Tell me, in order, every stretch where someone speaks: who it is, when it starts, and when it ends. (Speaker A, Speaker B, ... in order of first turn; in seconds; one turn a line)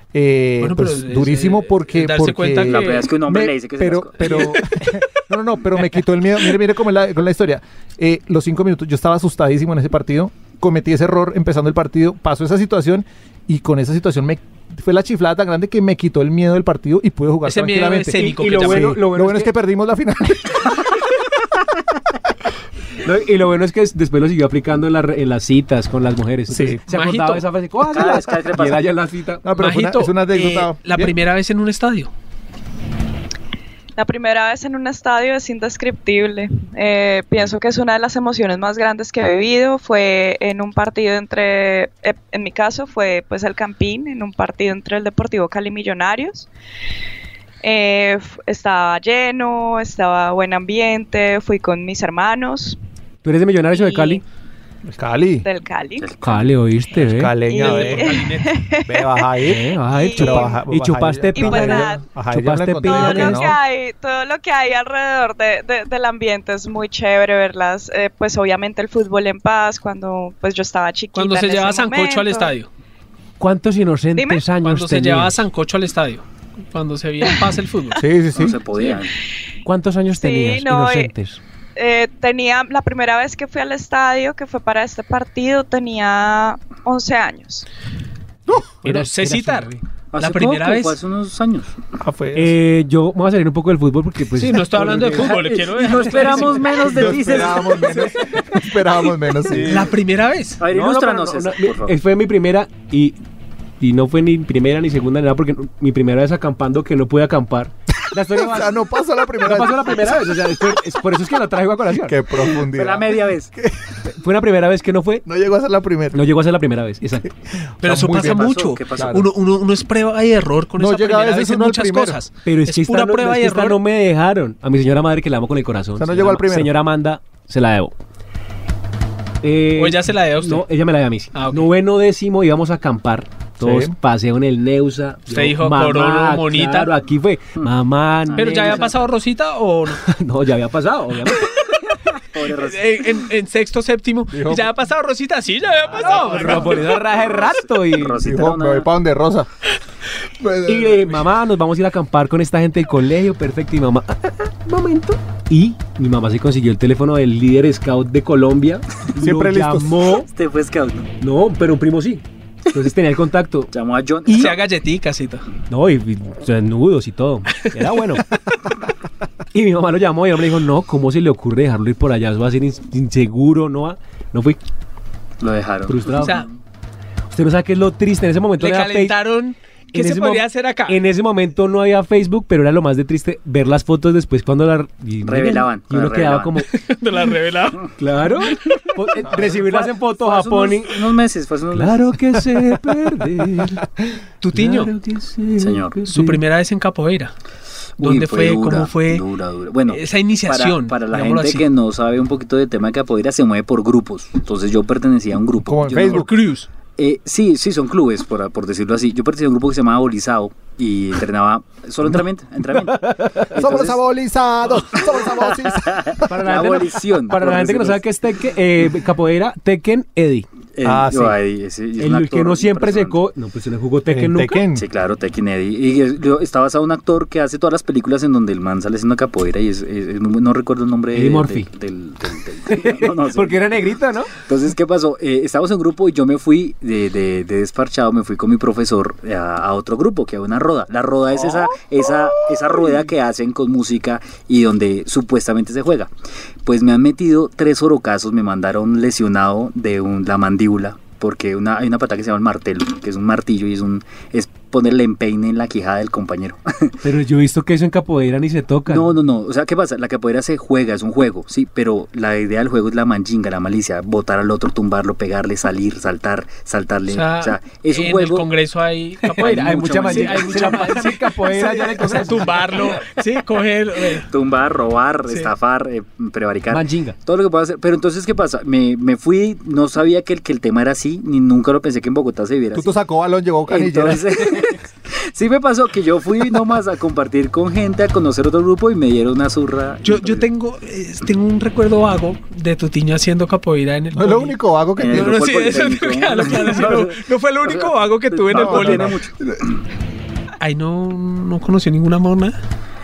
Speaker A: 0.1-20.8
Speaker B: 0.6-3.1
Speaker C: 2.7-4.7
Speaker B: 17.4-19.0
Speaker D: 18.1-19.5
Speaker D: 23.0-29.4
Speaker A: 26.5-26.8
Speaker B: 26.9-27.4
Speaker C: 27.8-28.9
Speaker A: 29.4-31.1
Speaker B: 29.6-32.1
Speaker E: 34.0-46.5
Speaker E: 47.6-52.8
Speaker D: 53.2-54.2
Speaker E: 53.7-54.2
Speaker A: 54.9-55.5
Speaker E: 55.4-56.1
Speaker C: 56.0-56.5
Speaker D: 56.2-57.3
Speaker A: 57.0-58.2
Speaker E: 57.5-59.3
Speaker B: 57.5-58.5
Speaker A: 58.9-63.6
Speaker D: 59.4-63.5
Speaker E: 59.9-60.6
Speaker E: 61.3-62.0
Speaker E: 62.8-72.5
Speaker B: 71.1-72.7
Speaker D: 73.4-75.4
Speaker E: 74.2-74.4
Speaker B: 74.6-78.0
Speaker A: 78.0-78.6
Speaker C: 78.3-79.1
Speaker D: 79.6-81.4
Speaker E: 80.1-81.1
Speaker E: 81.8-87.7
Speaker D: 88.8-89.8
Speaker B: 88.8-91.0
Speaker C: 90.1-91.8
Speaker A: 92.0-92.6
Speaker D: 92.3-97.1
Speaker B: 94.4-97.7
Speaker C: 95.1-98.1
Speaker A: 96.8-99.9
Speaker D: 99.5-99.9
Speaker B: 99.7-100.6
Speaker C: 100.6-102.0
Speaker D: 100.7-103.2
Speaker D: 103.8-108.7
Speaker A: 108.3-110.0
Speaker D: 109.4-112.2
Speaker A: 112.0-114.0
Speaker C: 112.6-113.5
Speaker D: 114.1-115.2
Speaker A: 115.2-116.2
Speaker D: 116.1-117.3
Speaker A: 117.8-119.3
Speaker B: 117.8-123.8
Speaker C: 118.1-119.2
Speaker A: 120.8-122.2
Speaker D: 122.4-127.9
Speaker A: 126.0-126.7
Speaker D: 129.4-138.9
Speaker B: 129.8-130.6
Speaker B: 131.3-131.7
Speaker A: 133.6-133.9
Speaker B: 135.3-136.9
Speaker C: 137.6-139.1
Speaker B: 138.3-140.0
Speaker D: 140.0-141.5
Speaker C: 142.3-143.2
Speaker B: 142.4-146.9
Speaker A: 144.3-144.7
Speaker C: 145.9-148.9
Speaker D: 146.2-148.2
Speaker A: 148.2-149.5
Speaker A: 150.4-151.2
Speaker D: 150.7-160.3
Speaker A: 159.1-160.1
Speaker C: 160.2-161.1
Speaker D: 161.2-163.7
Speaker C: 163.7-164.6
Speaker B: 164.3-165.4
Speaker D: 165.7-168.3
Speaker D: 169.5-174.6
Speaker C: 175.4-176.5
Speaker D: 175.9-176.3
Speaker B: 176.2-176.5
Speaker D: 177.3-179.2
Speaker B: 178.6-181.0
Speaker D: 179.9-186.7
Speaker C: 185.2-186.6
Speaker B: 186.7-187.8
Speaker D: 188.0-191.0
Speaker C: 188.5-192.4
Speaker D: 191.7-193.8
Speaker B: 194.4-194.9
Speaker D: 194.5-196.4
Speaker C: 195.6-196.0
Speaker B: 196.1-197.3
Speaker B: 198.0-199.2
Speaker C: 198.0-206.3
Speaker B: 199.9-201.6
Speaker A: 205.6-206.3
Speaker B: 206.0-206.7
Speaker C: 207.0-214.0
Speaker D: 212.9-213.5
Speaker A: 213.5-216.6
Speaker C: 214.9-218.0
Speaker D: 216.3-220.4
Speaker C: 220.7-223.2
Speaker A: 220.8-221.4
Speaker D: 222.0-224.6
Speaker A: 224.1-224.8
Speaker C: 224.7-233.8
Speaker D: 231.1-231.7
Speaker D: 232.7-234.3
Speaker C: 234.4-246.1
Speaker C: 246.6-257.0
Speaker D: 257.0-259.1
Speaker C: 258.9-268.5
Speaker B: 267.1-274.3
Speaker D: 269.4-273.0
Speaker C: 269.4-271.1
Speaker C: 274.3-283.0
Speaker D: 276.7-277.1
Speaker A: 282.7-284.2
Speaker C: 283.7-290.5
Speaker B: 290.0-294.6
Speaker A: 294.1-295.5
Speaker C: 295.0-299.4
Speaker B: 295.1-299.1
Speaker A: 298.5-299.6
Speaker B: 300.6-302.5